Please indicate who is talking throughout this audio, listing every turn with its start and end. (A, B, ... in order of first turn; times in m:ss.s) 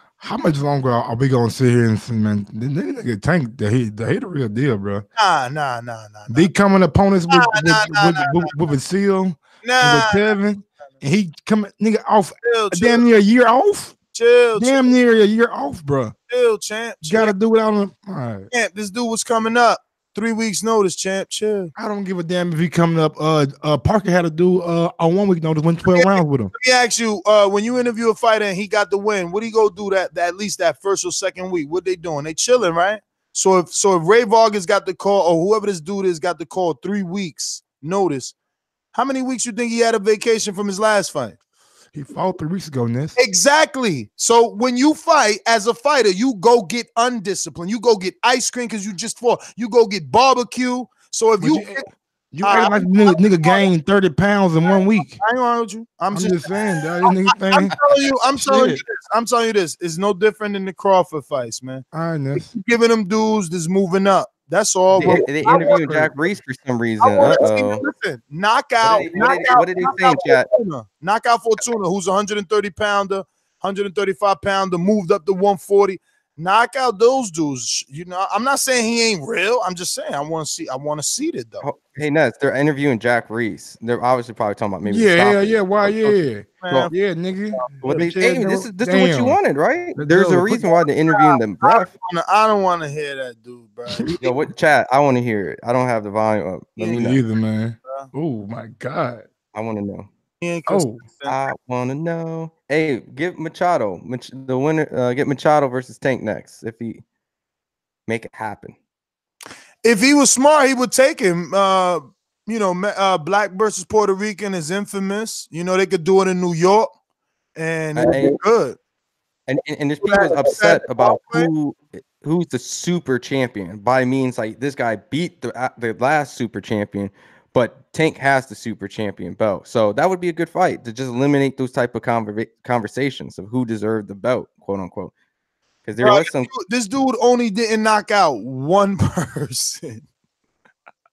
0:00.2-0:05.1 A
0:05.2-0:06.5 B
0:06.3-0:14.0 A
0:07.3-0:08.5 B
0:09.6-0:10.3 B
0:12.4-0:13.0 B
0:14.1-0:15.0 B
0:14.6-0:16.2 A
0:16.3-0:17.4 B
0:17.0-0:18.5 A
0:18.5-0:21.7 B
0:21.8-0:26.5 A
0:25.9-0:38.3 B
0:38.9-0:41.4 B
0:41.9-0:43.2 A
0:43.2-0:51.8 B
0:51.4-0:55.2 A
0:52.4-0:53.6 B
0:55.2-0:56.5 B
0:56.1-0:57.8 A
0:57.5-1:01.8 B
0:58.4-0:58.8 A
1:01.9-1:02.5 A
1:02.4-1:06.2 B
1:04.9-1:05.2 A
1:05.0-1:07.8 C
1:07.0-1:21.7 B
1:08.8-1:10.5 C
1:21.6-1:26.9 C
1:24.8-1:29.4 A
1:26.6-1:26.9 B
1:27.6-1:28.0 B
1:27.8-1:31.9 C
1:30.0-1:30.6 A
1:31.1-1:34.4 B
1:34.2-1:37.2 C
1:36.8-1:39.3 A
1:39.5-1:40.1 C
1:40.4-1:41.4 B
1:40.7-1:41.0 A
1:41.3-1:47.0 C
1:48.1-1:48.8 C
1:49.8-1:56.9 B
1:57.6-1:58.8 B
1:58.0-1:58.4 C
1:59.5-2:15.1 C
2:00.0-2:01.5 B
2:15.8-2:16.5 C
2:16.0-2:20.0 B